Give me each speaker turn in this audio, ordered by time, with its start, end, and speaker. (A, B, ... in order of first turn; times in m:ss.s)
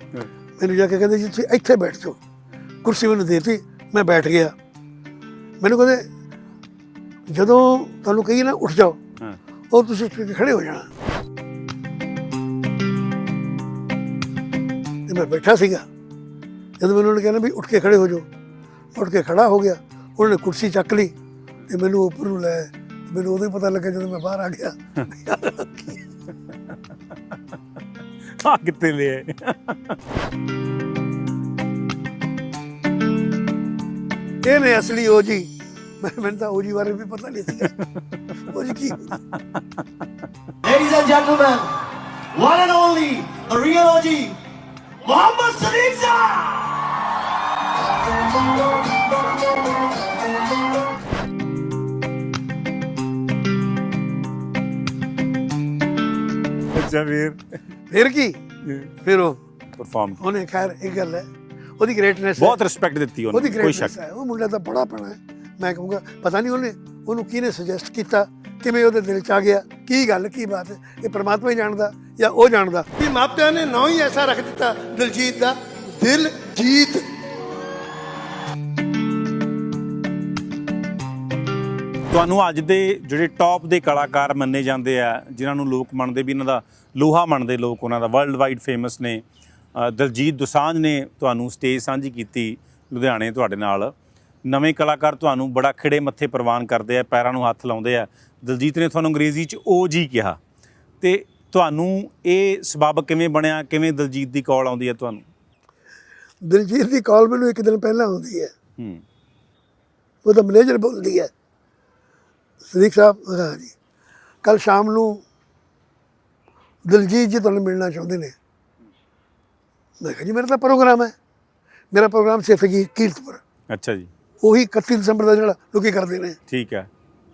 0:00.6-0:02.2 A
0:02.8-0:04.5 A
0:05.6-0:06.0 A
0:07.3-0:09.0 A
0:09.7-0:10.9 A
0:15.1-0:15.8 A
0:16.8-0:18.2 A
0:18.9-0:21.1 A
0:21.7-0:26.0 A
0:28.3-0:30.0 B
0:34.4-0:35.5 A
0:36.0-0:37.7 A
0:37.6-0:38.3 B
0:38.4-0:39.2 A
0:38.9-0:39.8 B
0:40.6-0:44.4 C
0:45.0-0:46.8 C
0:56.7-0:57.4 B
0:57.9-0:58.4 A
0:58.6-0:58.9 B
0:59.0-0:59.4 A
0:59.8-1:00.2 B
1:00.2-1:01.2 A
1:01.8-1:02.6 A
1:02.4-1:03.9 B
1:03.3-1:17.1 A
1:22.1-1:29.2 B
1:29.8-1:33.9 B
1:34.4-1:40.4 B
1:41.0-1:45.2 B
1:46.4-1:48.5 A
1:48.8-1:49.0 B
1:50.2-1:51.3 A
1:52.7-1:53.7 A
1:54.4-1:55.2 A
1:56.8-1:58.4 A
2:00.0-2:01.1 A
2:01.9-2:03.4 A
2:03.7-2:04.1 B
2:04.4-2:06.4 A
2:06.5-2:06.9 B